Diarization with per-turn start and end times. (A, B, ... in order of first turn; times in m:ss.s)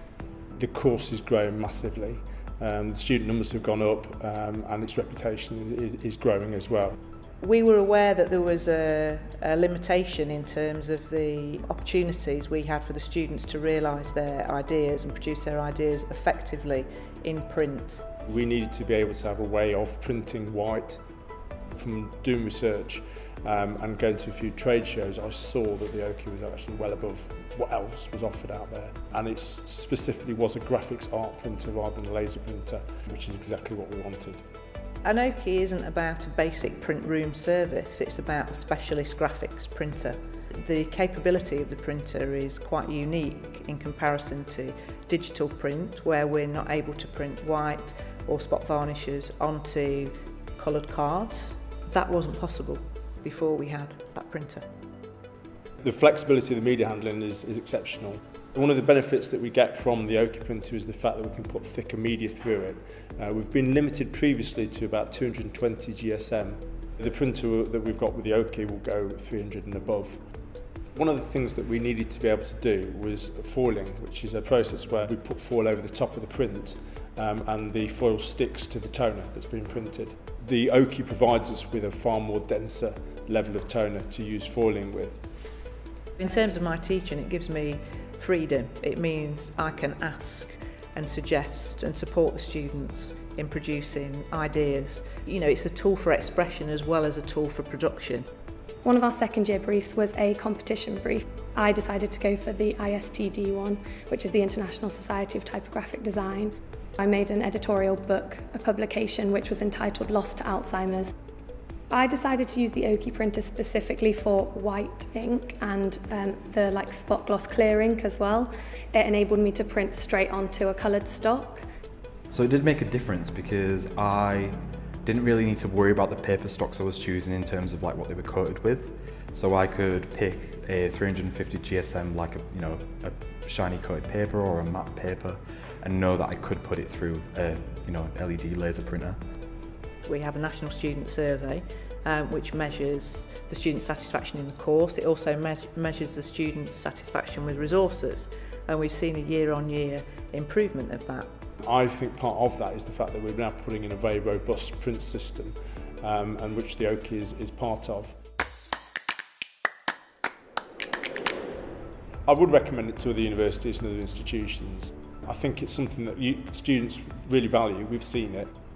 0:00.5-0:07.0 A
0:07.4-0:18.1 B
0:18.2-0:21.0 A
0:21.7-0:34.4 A
0:35.0-0:54.7 B
0:55.8-1:10.3 A
1:10.9-1:25.2 A
1:26.2-1:38.3 B
1:38.8-1:51.1 C
1:51.9-2:01.6 C
2:02.3-2:19.2 D
2:20.0-2:31.3 B
2:31.6-2:38.2 A
2:42.2-2:48.5 A